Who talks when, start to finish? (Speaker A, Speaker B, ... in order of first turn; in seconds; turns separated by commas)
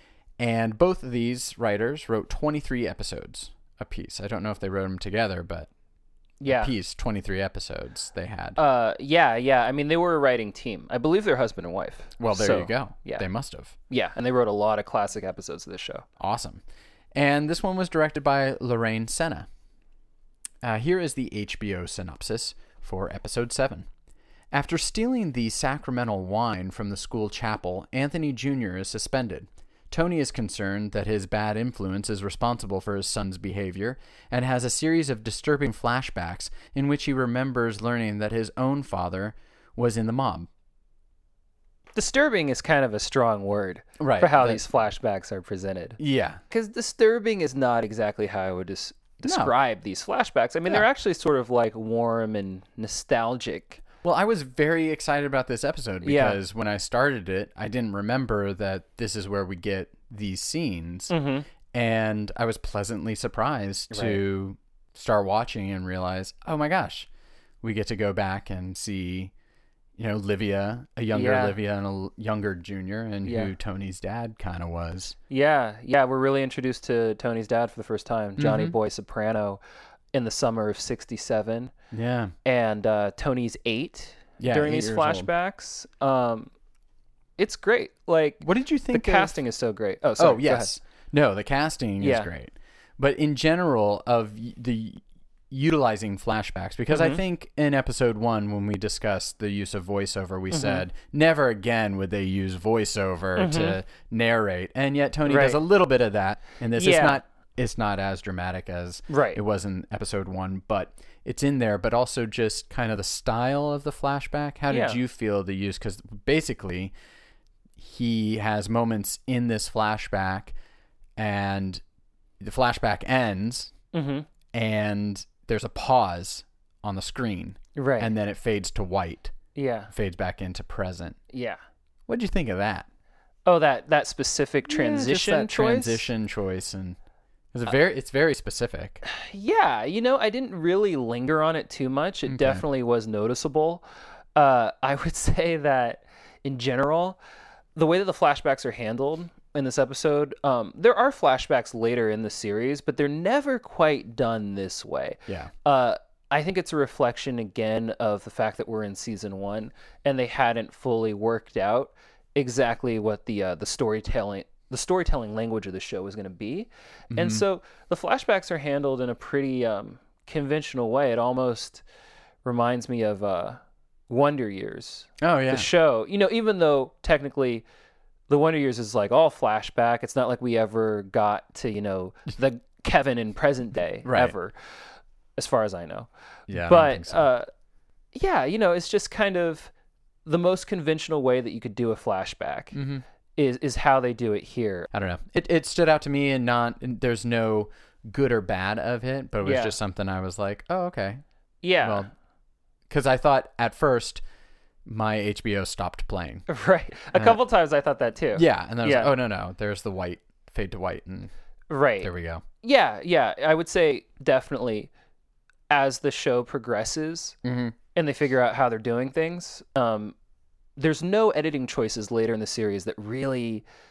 Speaker A: 0.4-5.7, Speaker B: 6.4-6.7, Speaker A: 6.5-8.6, Speaker B: 8.6-13.2, Speaker A: 12.2-13.8, Speaker B: 13.9-16.1, Speaker A: 16.2-16.6, Speaker A: 17.1-19.5, Speaker A: 20.6-23.9, Speaker A: 24.5-40.5, Speaker B: 42.0-46.0, Speaker A: 44.0-44.6, Speaker A: 46.0-46.4, Speaker B: 46.5-53.8, Speaker A: 49.2-49.5, Speaker A: 54.0-61.1, Speaker B: 56.0-56.4, Speaker B: 61.1-61.5, Speaker A: 61.7-67.1, Speaker B: 63.9-64.2, Speaker A: 67.6-69.3, Speaker A: 70.0-75.2, Speaker B: 71.1-71.6, Speaker B: 73.2-73.5, Speaker B: 75.3-79.6, Speaker A: 78.4-78.8, Speaker B: 80.1-81.7, Speaker A: 81.9-82.3, Speaker B: 82.5-86.5, Speaker A: 84.4-85.3, Speaker B: 87.4-90.7, Speaker A: 88.4-89.4, Speaker A: 90.2-116.9, Speaker B: 92.0-92.3, Speaker B: 96.9-97.2, Speaker B: 100.5-100.8, Speaker B: 103.3-103.8, Speaker B: 105.3-105.6, Speaker B: 106.8-107.2, Speaker B: 109.1-109.4, Speaker B: 114.7-115.0, Speaker A: 117.8-120.5, Speaker A: 121.2-121.8, Speaker A: 122.4-123.7, Speaker B: 123.9-124.3, Speaker A: 124.5-129.3, Speaker B: 127.8-128.1, Speaker B: 129.6-129.9, Speaker A: 129.9-131.2, Speaker B: 131.3-131.6, Speaker A: 132.1-132.9, Speaker B: 133.5-136.1, Speaker A: 134.7-137.0, Speaker A: 137.5-139.0, Speaker B: 139.0-143.8, Speaker A: 142.3-142.6, Speaker B: 144.4-147.2, Speaker B: 147.8-171.8, Speaker A: 167.1-167.4, Speaker B: 172.4-177.7, Speaker A: 175.2-175.7, Speaker B: 178.3-184.6, Speaker A: 184.1-184.3, Speaker B: 185.4-187.5, Speaker A: 186.5-187.2, Speaker B: 188.1-189.7, Speaker B: 190.3-192.8, Speaker A: 192.7-193.0, Speaker B: 193.4-194.9, Speaker A: 194.9-201.2, Speaker B: 199.4-199.8, Speaker B: 201.6-202.1, Speaker A: 201.8-202.1, Speaker A: 202.9-204.2, Speaker A: 204.9-206.5, Speaker B: 206.5-209.2, Speaker A: 207.1-207.4, Speaker A: 208.3-211.3, Speaker B: 211.7-212.1, Speaker A: 212.0-212.4, Speaker B: 212.6-214.9, Speaker B: 215.7-217.4, Speaker A: 217.4-217.8, Speaker B: 217.9-220.2, Speaker B: 220.8-223.7